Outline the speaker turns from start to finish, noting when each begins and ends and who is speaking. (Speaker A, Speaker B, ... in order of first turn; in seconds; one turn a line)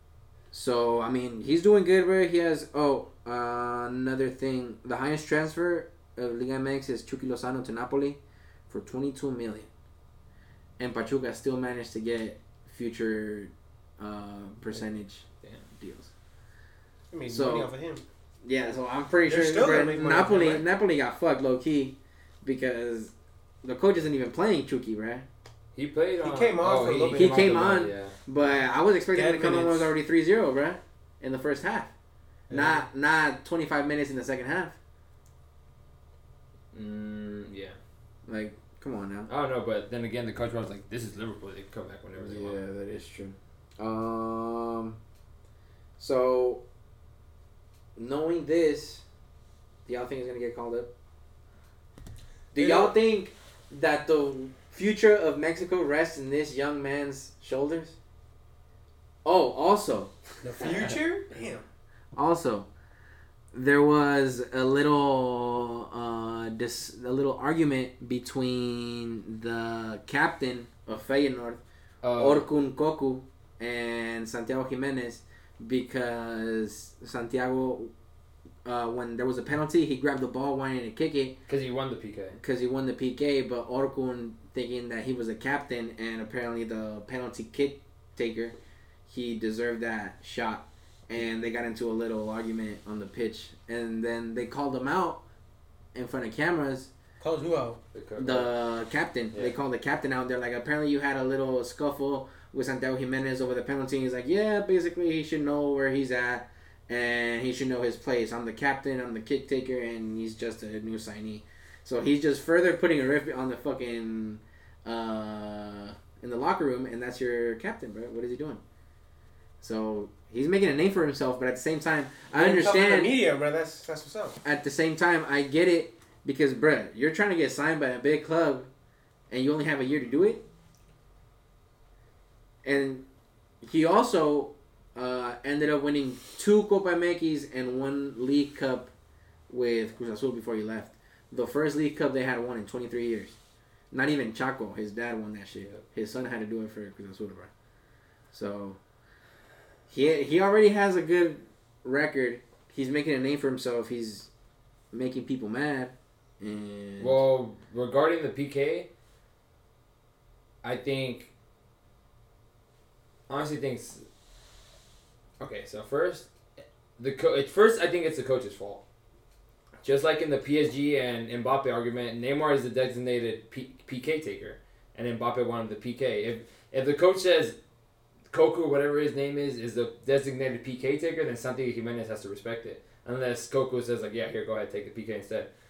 Speaker A: 0.5-8.2
Speaker A: 8.7-9.7
Speaker A: 10.8-16.1
Speaker B: 17.1-18.0
Speaker A: 17.3-17.7
Speaker A: 18.4-25.2
Speaker B: 19.2-20.6
Speaker C: 25.7-28.1
Speaker B: 26.2-27.5
Speaker A: 27.1-31.9
Speaker B: 29.1-29.9
Speaker B: 32.5-32.9
Speaker A: 32.5-34.8
Speaker C: 36.7-37.8
Speaker A: 38.3-39.3
Speaker C: 39.3-42.6
Speaker A: 42.1-45.0
Speaker A: 46.0-46.6
Speaker A: 48.0-49.0
Speaker A: 49.9-50.9
Speaker A: 52.5-58.0
Speaker B: 52.6-52.9
Speaker A: 59.2-60.1
Speaker B: 60.4-61.6
Speaker A: 62.1-62.7
Speaker A: 63.5-71.6
Speaker C: 72.0-72.5
Speaker A: 72.2-77.9
Speaker A: 78.6-81.4
Speaker C: 81.5-82.4
Speaker A: 82.4-88.5
Speaker A: 89.1-95.2
Speaker A: 95.9-96.9
Speaker B: 97.2-97.8
Speaker C: 97.9-98.5
Speaker A: 98.2-118.6
Speaker A: 119.6-123.1
Speaker B: 122.3-124.3
Speaker A: 124.4-128.7
Speaker A: 129.3-130.4
Speaker A: 132.6-133.0
Speaker A: 133.6-138.9
Speaker A: 139.5-143.3
Speaker A: 143.9-147.5
Speaker A: 148.3-148.8
Speaker A: 149.9-154.3
Speaker A: 154.9-157.2
Speaker C: 157.0-158.9
Speaker C: 160.6-161.3
Speaker C: 163.3-164.0
Speaker C: 165.4-166.3
Speaker C: 167.0-168.8
Speaker C: 169.8-177.6
Speaker C: 178.3-185.5